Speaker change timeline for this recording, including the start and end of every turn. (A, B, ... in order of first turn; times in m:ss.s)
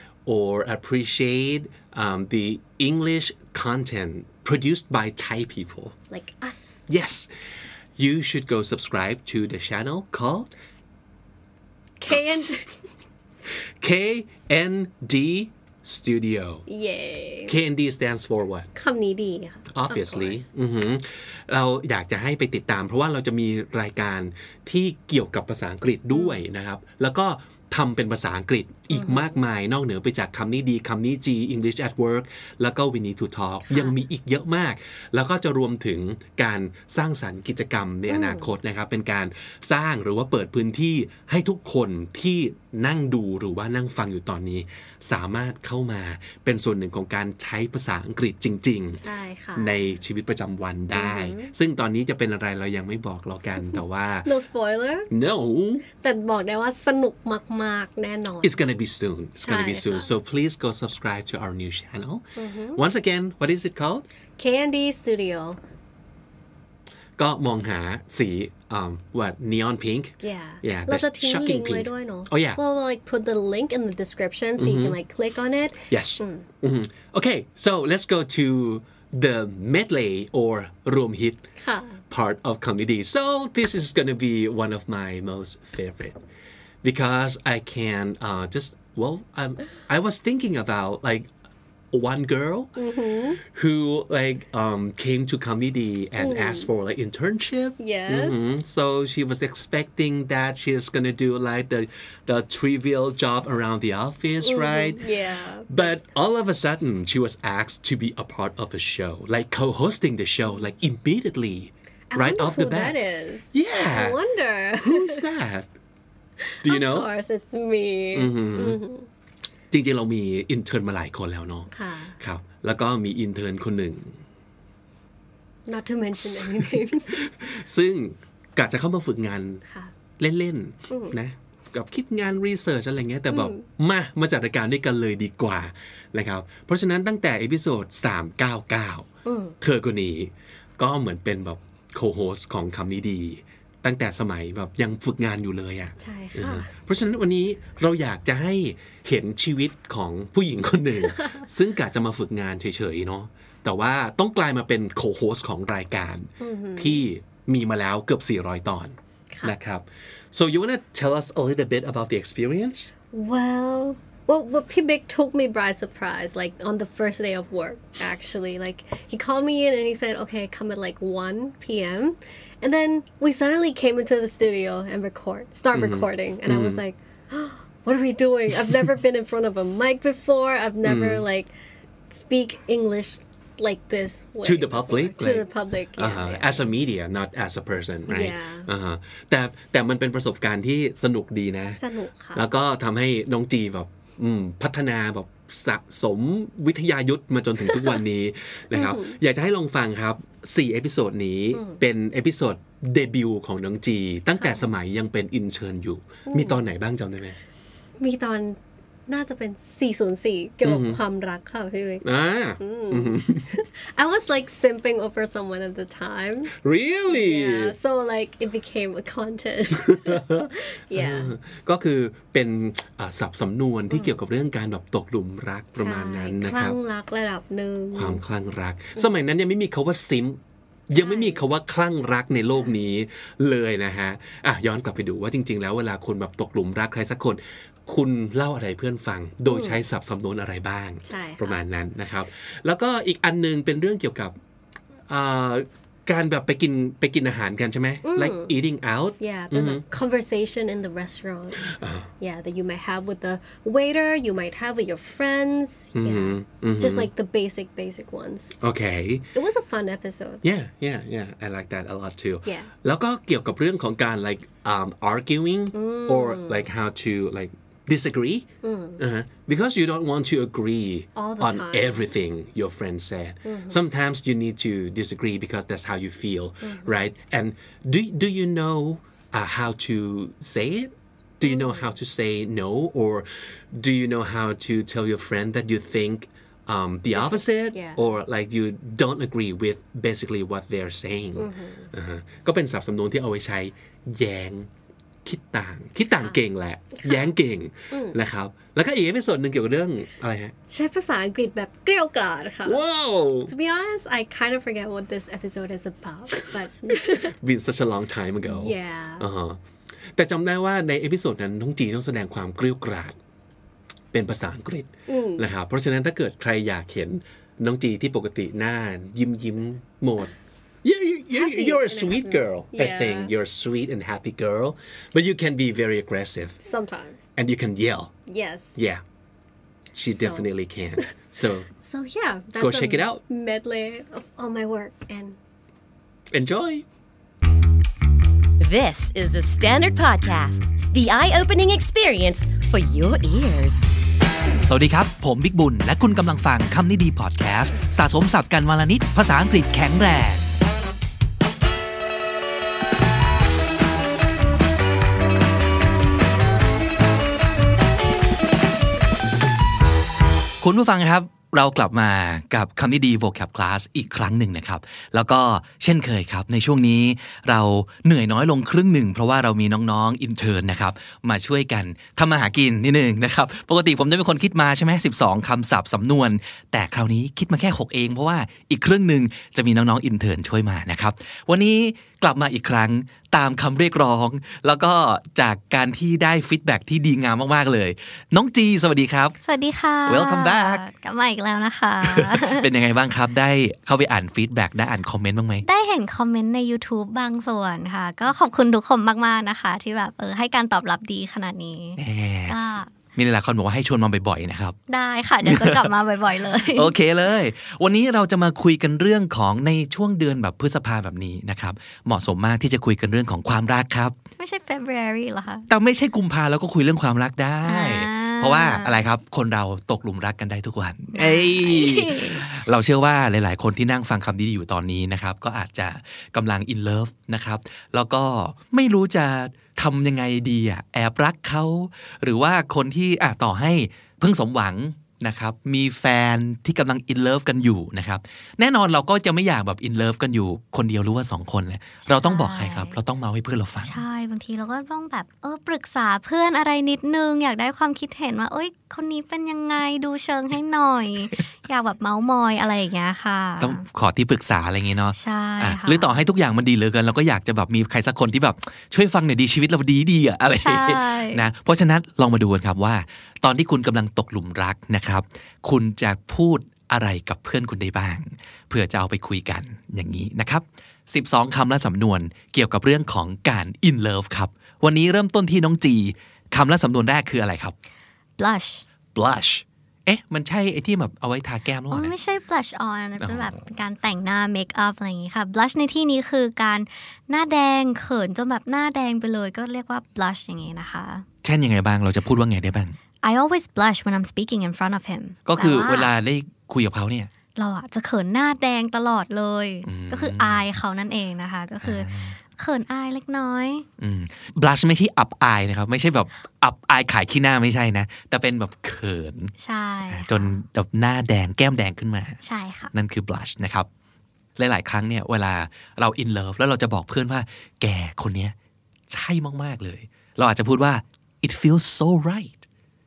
0:00.2-0:05.9 A
0:06.1-0:06.8 B
0:06.9-0:07.3 A
0:08.0-0:10.5 A
0:12.0-0:12.8 B
0:13.8-0:16.6 A
0:16.7-0:17.6 B
0:17.5-0:18.7 A
0:18.7-0:20.5 B
0:19.7-0:49.0 A
0:26.1-0:26.4 B
0:28.9-0:29.3 B
0:33.7-0:34.0 B
0:38.1-0:38.5 B
0:49.0-0:49.8 B
0:49.6-0:54.3 A
0:50.9-0:51.5 B
0:53.6-0:55.1 B
0:55.1-0:55.8 A
0:56.0-0:58.6 B
0:58.4-1:02.2 A
0:59.4-1:00.1 B
1:02.4-1:02.8 B
1:02.7-1:04.0 A
1:04.4-1:05.6 B
1:07.2-1:12.6 A
1:10.2-1:16.5 B
1:14.6-1:14.9 A
1:15.9-1:21.4 A
1:21.6-1:22.0 B
1:22.1-1:26.2 A
1:26.8-1:31.3 A
1:31.9-1:32.7 A
1:32.8-1:33.4 B
1:33.4-1:45.0 A
1:36.2-1:36.7 B
1:37.8-1:38.4 B
1:44.4-1:45.8 B
1:45.7-1:52.9 A
1:52.1-1:55.3 B
1:53.5-1:54.2 A
1:54.8-1:55.6 A
1:56.4-1:59.1 B
1:56.6-1:57.1 A
1:58.1-1:58.8 A
1:59.7-2:01.7 A
2:01.7-2:02.2 B
2:02.2-2:04.1 A
2:05.7-2:07.3 B
2:06.3-2:09.6 A
2:09.6-2:09.9 B
2:10.2-2:19.1 A
2:13.3-2:13.6 B
2:19.2-2:19.6 B
2:19.6-2:42.9 A
2:26.0-2:26.7 B
2:36.4-2:37.0 B
2:43.1-3:01.5 B
2:55.7-2:56.8 A
3:00.8-3:01.2 A
3:02.1-3:06.7 B
3:04.4-3:05.4 A
3:06.0-3:11.8 A
3:08.0-3:08.7 B
3:11.8-3:12.5 B
3:12.3-3:27.4 A
3:17.7-3:18.0 B
3:18.7-3:19.2 B
3:21.5-3:21.8 B
3:24.4-3:24.7 B
3:26.3-3:26.6 B
3:28.0-3:36.5 B
3:30.6-3:31.0 A
3:32.0-3:33.4 A
3:36.6-3:37.7 A
3:37.1-3:41.3 B
3:39.8-3:46.8 A
3:43.9-3:44.2 B
3:45.8-3:48.2 B
3:47.9-3:50.4 A
3:50.9-4:04.3 A
3:50.9-3:51.4 B
3:52.6-3:52.8 B
3:59.4-3:59.8 B
4:01.0-4:01.6 B
4:05.1-4:09.8 A
4:08.0-4:08.5 B
4:09.2-4:18.6 B
4:11.8-4:12.1 A
4:16.0-4:17.1 A
4:18.6-4:19.3 A
4:19.3-4:20.4 B
4:20.4-4:28.5 A
4:22.4-4:22.7 B
4:25.7-4:26.7 B
4:28.6-4:29.0 B
4:29.0-4:54.7 A
4:31.1-4:32.2 B
4:33.4-4:33.8 B
4:36.6-4:37.1 B
4:41.4-4:42.0 B
4:47.1-4:48.0 B
4:51.4-4:51.9 B
4:55.2-5:00.5 A
4:56.9-4:57.3 B
4:57.9-4:58.2 B
5:00.7-5:02.8 B
5:02.6-5:03.5 A
5:03.5-5:07.3 B
5:07.3-5:09.6 A
5:08.4-5:09.3 B
5:10.2-5:13.1 A
5:14.1-5:20.3 A
5:15.1-5:15.5 B
5:20.8-5:26.6 A
5:21.3-5:23.3 B
5:26.6-5:27.3 B
5:27.4-5:28.1 A
5:28.3-5:28.7 B
5:28.8-5:29.0 A
5:29.9-5:31.7 A
5:30.1-5:31.1 B
5:31.7-5:35.4 B
5:32.6-5:33.2 A
5:36.3-5:36.8 A
5:38.6-5:43.9 C
5:44.6-5:50.5 D
6:00.6-6:29.4 D
6:29.4-6:32.7 E
6:30.0-6:30.8 D
6:32.0-6:35.6 D
6:35.6-6:42.9 E
6:42.0-6:42.6 D
6:43.1-6:44.8 D
6:44.9-6:46.9 E
6:45.4-6:45.9 D
6:46.7-6:54.1 D
6:54.4-6:55.7 E
6:55.7-7:24.0 D
6:57.6-6:59.0 E
7:01.1-7:02.4 E
7:22.1-7:23.0 E
7:23.8-7:33.8 E
7:33.6-7:57.7 D
7:35.1-7:36.2 E
7:40.5-7:41.4 E
7:58.4-7:58.8 E
7:59.1-8:02.1 D
8:01.9-8:11.2 E
8:03.2-8:03.6 D
8:11.4-8:13.0 D
8:13.2-8:16.1 E
8:15.4-8:17.3 D
8:17.5-8:23.8 E
8:19.8-8:20.6 D
8:21.8-8:22.4 D
8:24.0-8:29.5 D
8:29.6-8:30.5 E
8:30.1-8:32.4 D
8:32.4-8:32.9 E
8:32.9-8:33.9 D
8:34.6-8:38.5 D
8:39.1-8:42.6 D